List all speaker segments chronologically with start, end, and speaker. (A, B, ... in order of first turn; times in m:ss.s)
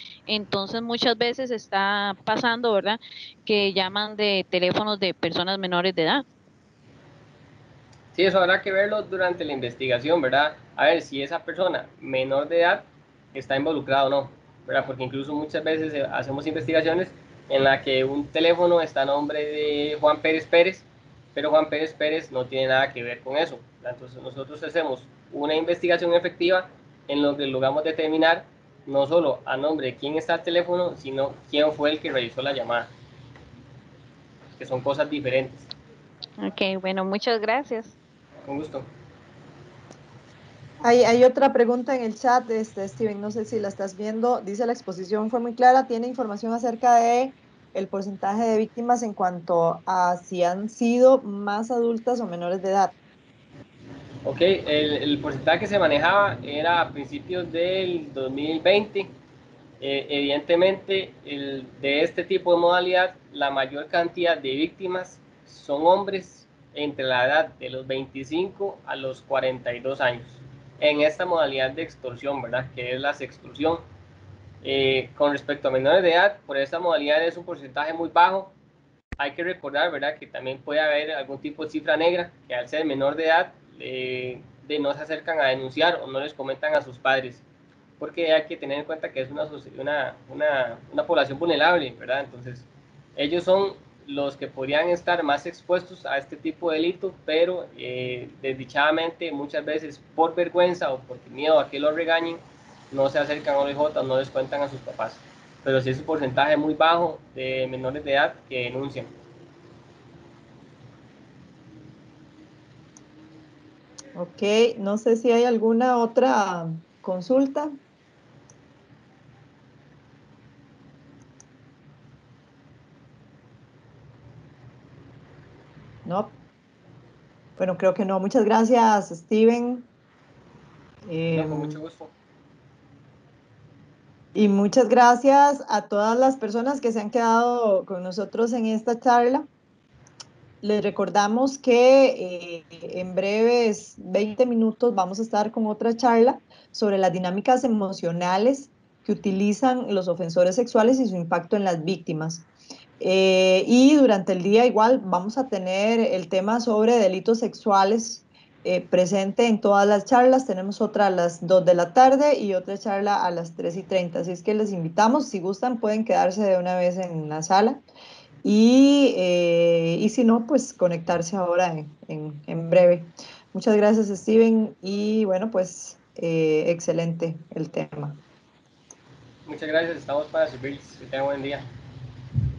0:00.3-0:06.2 A
0:08.1-0:32.9 B
0:34.6-0:35.7 B
0:36.4-0:37.9 A
0:38.4-0:38.9 B
0:40.8-0:52.9 C
0:54.2-0:59.1 B
0:59.8-1:13.8 B
1:14.6-1:18.5 B
1:19.2-1:27.4 B
1:28.0-1:49.1 B
1:54.1-1:57.7 C
2:06.0-2:06.3 C
2:07.6-2:09.8 C
2:11.0-2:11.8 C
2:11.3-2:12.1 B
2:14.3-2:19.5 C
2:20.6-2:32.4 C
2:33.0-2:47.8 C
2:48.4-2:58.2 C
2:59.4-3:01.7 B